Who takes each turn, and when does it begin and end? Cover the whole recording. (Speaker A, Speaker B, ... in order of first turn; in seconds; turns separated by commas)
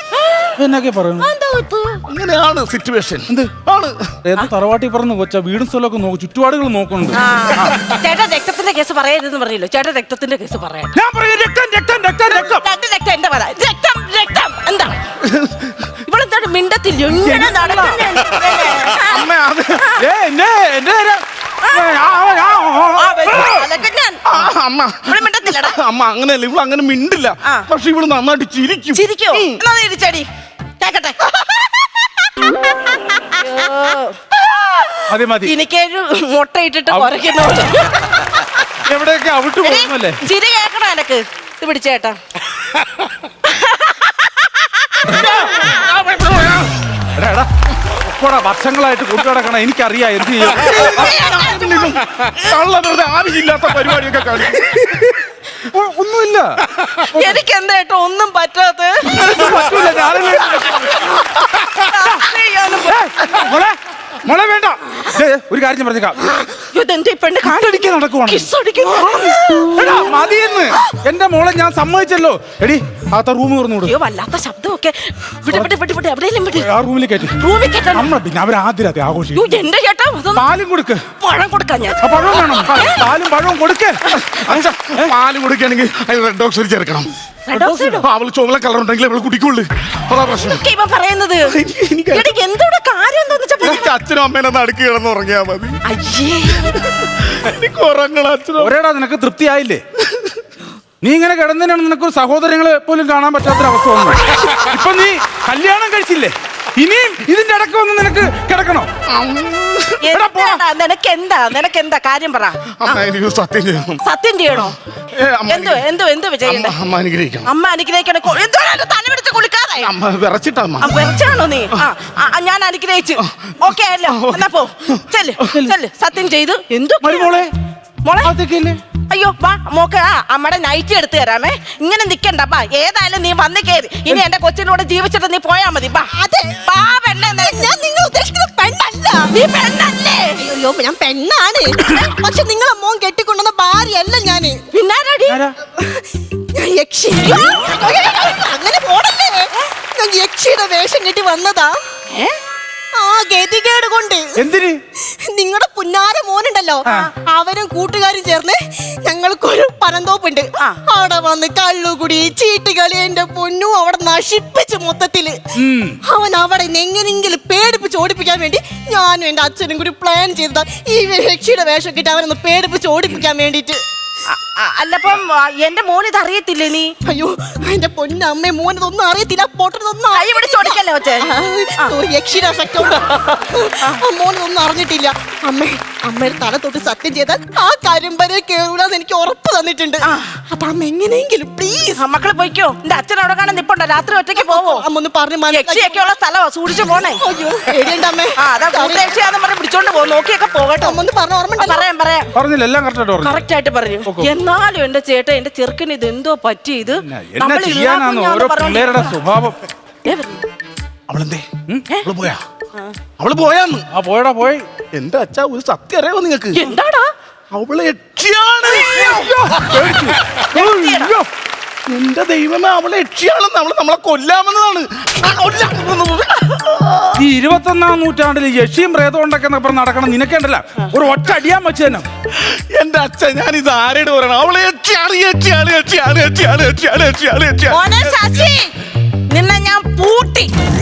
Speaker A: 0.6-1.3, Speaker B: 1.2-2.0, Speaker C: 2.1-4.1, Speaker A: 4.2-7.8, Speaker B: 7.1-10.9, Speaker A: 10.9-12.7, Speaker B: 12.3-14.9, Speaker C: 15.2-15.8, Speaker B: 16.1-19.3, Speaker A: 17.2-18.3, Speaker C: 18.9-19.9, Speaker A: 20.0-23.7, Speaker B: 21.6-22.0, Speaker B: 23.0-24.4, Speaker C: 24.3-29.6, Speaker B: 25.1-25.8, Speaker B: 28.9-30.3, Speaker B: 30.8-31.2, Speaker B: 32.9-34.9, Speaker A: 35.1-35.5, Speaker B: 35.4-38.5, Speaker A: 36.9-37.2, Speaker A: 38.8-40.2, Speaker B: 39.6-42.2, Speaker B: 43.4-46.5, Speaker A: 45.1-45.3, Speaker A: 47.1-52.1, Speaker B: 50.5-52.0, Speaker C: 52.4-54.9, Speaker A: 55.7-57.4, Speaker B: 57.0-59.6, Speaker A: 59.1-61.0, Speaker B: 60.6-63.1, Speaker A: 61.6-62.2, Speaker A: 62.9-66.2, Speaker B: 66.3-70.0, Speaker A: 67.5-73.9, Speaker B: 73.8-76.7, Speaker A: 76.5-77.4, Speaker B: 77.3-78.1, Speaker A: 77.9-79.5, Speaker B: 79.3-80.5, Speaker A: 80.3-81.0, Speaker B: 81.2-82.8, Speaker A: 82.0-85.1, Speaker C: 84.1-87.1, Speaker B: 87.5-88.0, Speaker A: 87.5-88.0, Speaker C: 88.0-90.6, Speaker B: 90.5-91.5, Speaker C: 91.5-92.3, Speaker B: 92.1-93.9, Speaker C: 93.6-95.8, Speaker B: 95.9-96.8, Speaker C: 96.8-98.7, Speaker A: 98.6-99.8, Speaker C: 100.0-100.3, Speaker A: 101.0-108.9, Speaker C: 109.1-110.0, Speaker B: 110.0-113.0, Speaker A: 110.1-110.6, Speaker C: 112.8-114.0, Speaker B: 114.0-114.8, Speaker C: 115.1-115.8, Speaker B: 115.5-116.8, Speaker C: 116.4-117.5, Speaker B: 117.5-119.9, Speaker C: 119.8-120.9, Speaker B: 120.8-127.5, Speaker C: 123.2-123.5, Speaker C: 124.1-124.4, Speaker A: 127.0-127.5, Speaker B: 128.1-128.3, Speaker A: 128.2-128.8, Speaker B: 129.1-136.1, Speaker D: 136.1-136.6, Speaker B: 136.6-137.7, Speaker D: 137.3-139.3, Speaker B: 139.3-140.5, Speaker D: 140.4-144.6, Speaker B: 144.7-145.4, Speaker A: 145.3-145.6, Speaker D: 145.8-151.8, Speaker B: 147.5-147.8, Speaker B: 152.1-152.4, Speaker D: 152.9-154.4, Speaker A: 154.4-154.8, Speaker D: 155.3-165.4, Speaker B: 156.8-157.1, Speaker A: 165.6-166.0, Speaker D: 166.1-173.8, Speaker B: 174.3-176.9, Speaker D: 177.1-192.0, Speaker B: 180.1-181.3, Speaker B: 190.0-190.4, Speaker B: 192.0-194.8, Speaker D: 194.4-196.1, Speaker B: 195.5-197.2, Speaker D: 197.2-199.1, Speaker B: 198.4-201.0, Speaker D: 200.8-201.8, Speaker B: 201.6-202.3, Speaker A: 202.3-203.4, Speaker B: 203.2-209.2, Speaker A: 204.1-204.3, Speaker A: 207.0-209.6, Speaker B: 210.1-210.4, Speaker C: 211.1-211.5, Speaker C: 212.0-212.4, Speaker C: 213.2-213.9, Speaker A: 213.9-214.7, Speaker C: 214.9-216.7, Speaker B: 216.5-217.1, Speaker C: 217.5-219.3, Speaker B: 218.8-219.2, Speaker A: 218.9-221.3, Speaker B: 220.5-221.2, Speaker C: 221.9-227.2, Speaker A: 227.2-232.1, Speaker C: 232.3-238.2, Speaker B: 237.7-238.7, Speaker B: 239.3-240.5